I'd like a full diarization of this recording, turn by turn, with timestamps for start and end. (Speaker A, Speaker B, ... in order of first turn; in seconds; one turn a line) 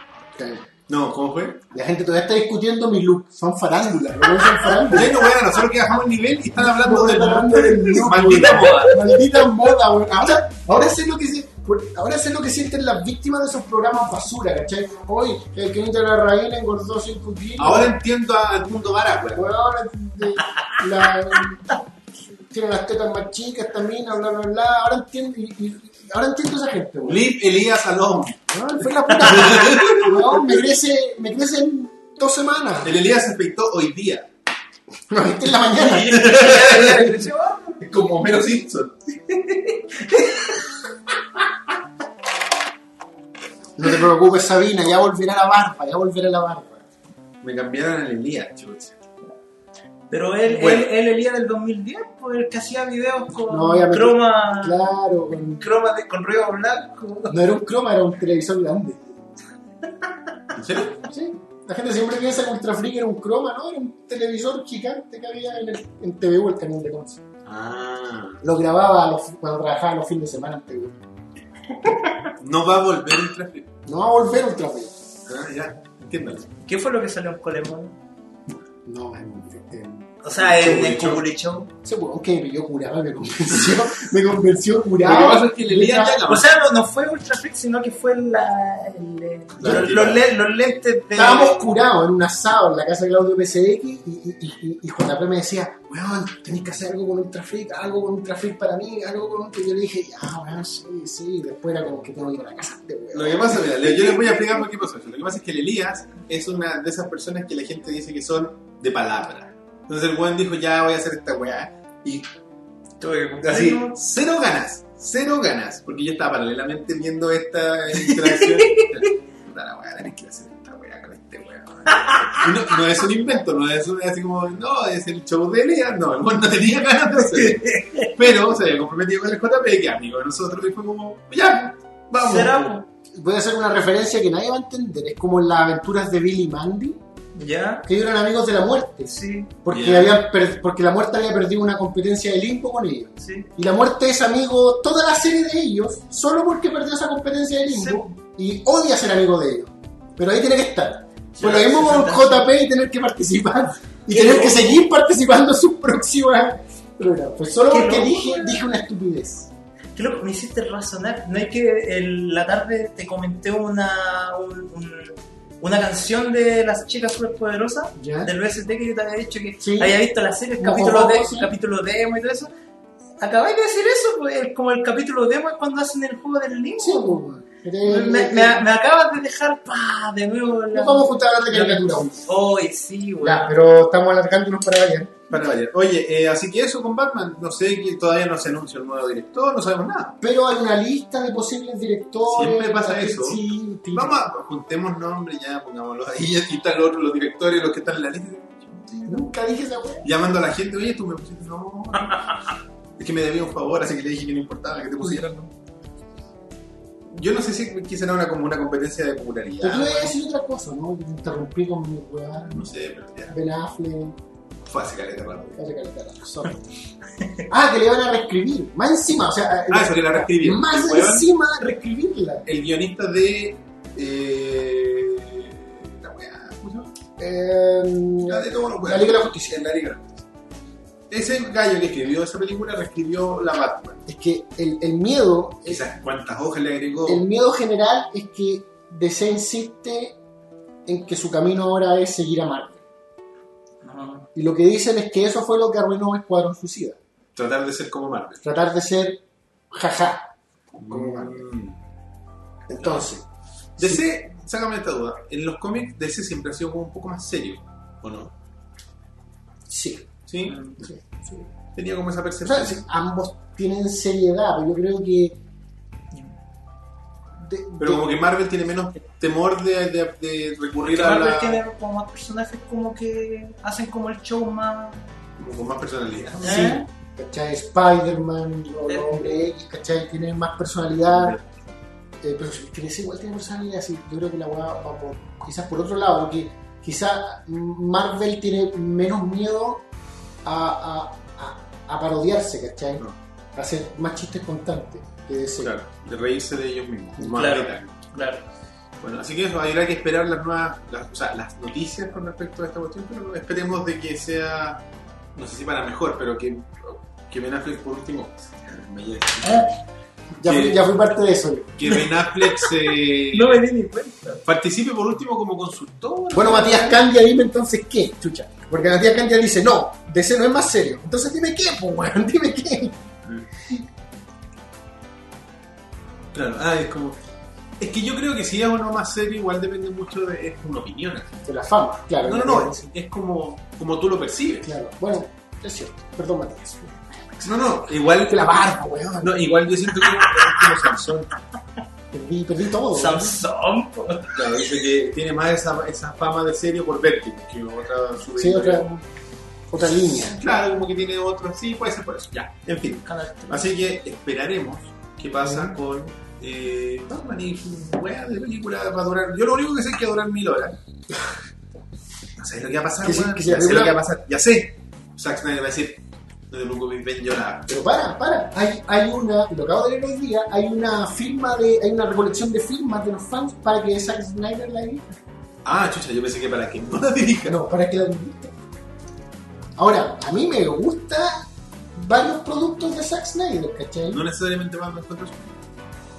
Speaker A: 0.3-0.7
Speaker B: 0.9-1.6
Speaker A: 1.7-5.3
Speaker B: 4.9-9.0
Speaker A: 6.6-18.0
Speaker C: 8.1-9.1
Speaker B: 17.6-19.4
Speaker A: 19.3-27.2
Speaker C: 20.5-20.8
Speaker B: 27.0-28.4
Speaker A: 28.5-33.0
Speaker B: 29.2-30.6
Speaker B: 32.8-34.3
Speaker A: 35.1-36.4
Speaker C: 35.8-37.8
Speaker B: 35.9-37.2
Speaker B: 37.8-39.0
Speaker C: 39.3-40.6
Speaker A: 43.8-46.8
Speaker B: 47.4-49.0
Speaker C: 50.1-54.8
Speaker B: 50.5-50.9
Speaker A: 53.5-55.6
Speaker C: 55.6-57.4
Speaker A: 57.3-59.1
Speaker B: 60.5-61.0
Speaker A: 61.0-67.2
Speaker B: 67.5-68.4
Speaker A: 68.4-71.0
Speaker C: 71.8-72.3
Speaker B: 72.4-73.7
Speaker A: 73.8-74.9
Speaker B: 75.3-76.5
Speaker C: 76.6-77.9
Speaker A: 78.8-80.8
Speaker C: 80.2-81.7
Speaker B: 80.4-81.2
Speaker A: 81.8-86.2
Speaker B: 85.0-86.5
Speaker C: 86.2-91.7
Speaker B: 89.6-90.2
Speaker A: 91.1-104.4
Speaker B: 103.1-112.3
Speaker C: 113.0-114.0
Speaker B: 113.4-132.8
Speaker C: 118.0-118.9
Speaker C: 121.9-122.7
Speaker C: 127.3-128.2
Speaker C: 132.2-132.8
Speaker A: 133.1-137.0
Speaker C: 137.3-137.9
Speaker A: 137.8-159.5
Speaker C: 139.1-139.5
Speaker B: 139.7-140.2
Speaker C: 143.2-143.5
Speaker C: 147.7-148.1
Speaker C: 151.4-152.5
Speaker C: 154.1-154.8
Speaker C: 157.7-158.6
Speaker C: 159.9-172.5
Speaker A: 168.0-168.3
Speaker A: 169.6-170.0
Speaker A: 170.6-171.5
Speaker C: 173.2-177.2
Speaker A: 176.8-178.6
Speaker C: 177.8-183.6
Speaker A: 180.7-182.3
Speaker A: 183.2-185.5
Speaker B: 185.3-190.2
Speaker A: 190.2-194.2
Speaker B: 192.3-199.1
Speaker A: 199.0-200.1
Speaker B: 200.0-202.4
Speaker B: 203.0-205.4
Speaker B: 207.1-210.1
Speaker A: 209.6-212.7
Speaker B: 212.5-213.3
Speaker A: 213.3-214.2
Speaker B: 214.7-215.6
Speaker A: 215.6-216.6
Speaker A: 217.5-222.4
Speaker B: 219.7-221.3
Speaker B: 222.4-226.9
Speaker A: 227.2-229.7
Speaker B: 228.2-230.2
Speaker B: 231.1-234.0
Speaker A: 234.1-235.8
Speaker B: 235.6-237.2
Speaker A: 237.0-240.2
Speaker A: 240.8-242.8
Speaker C: 243.8-244.3
Speaker A: 244.3-247.0
Speaker B: 247.3-248.4
Speaker A: 248.4-250.3
Speaker B: 250.8-251.8
Speaker A: 250.9-251.4
Speaker A: 252.7-253.2
Speaker A: 253.8-254.0
Speaker B: 253.8-258.3
Speaker A: 259.7-260.1
Speaker B: 260.3-260.6
Speaker C: 260.5-260.8
Speaker A: 260.8-261.5
Speaker B: 261.7-262.8
Speaker A: 262.4-265.4
Speaker A: 267.4-268.1
Speaker B: 267.8-271.6
Speaker C: 270.9-275.0
Speaker B: 275.4-276.8
Speaker C: 276.4-276.9
Speaker A: 276.4-281.4
Speaker C: 278.9-279.2
Speaker B: 281.1-281.4
Speaker A: 282.2-289.8
Speaker A: 290.4-295.7
Speaker B: 295.6-298.1
Speaker C: 297.3-298.4
Speaker B: 299.0-309.8
Speaker A: 310.4-311.8
Speaker B: 310.4-310.8
Speaker B: 311.8-313.6
Speaker C: 311.9-312.7
Speaker C: 313.3-314.4
Speaker B: 314.4-317.0
Speaker A: 316.3-323.0
Speaker B: 326.3-327.2
Speaker B: 327.8-331.4
Speaker A: 331.4-332.8
Speaker B: 332.2-334.7
Speaker A: 334.6-337.0
Speaker B: 337.4-341.3
Speaker A: 338.3-339.4
Speaker C: 340.0-340.7
Speaker A: 342.1-343.4
Speaker C: 342.9-344.6
Speaker B: 344.3-348.9
Speaker A: 348.4-349.0
Speaker A: 349.7-350.4
Speaker B: 350.2-360.8
Speaker C: 353.1-353.7
Speaker A: 355.4-355.7
Speaker B: 362.4-367.7
Speaker A: 363.0-364.0
Speaker A: 367.7-375.2
Speaker B: 375.6-377.6
Speaker A: 377.4-378.5
Speaker A: 379.8-384.2
Speaker B: 384.1-385.6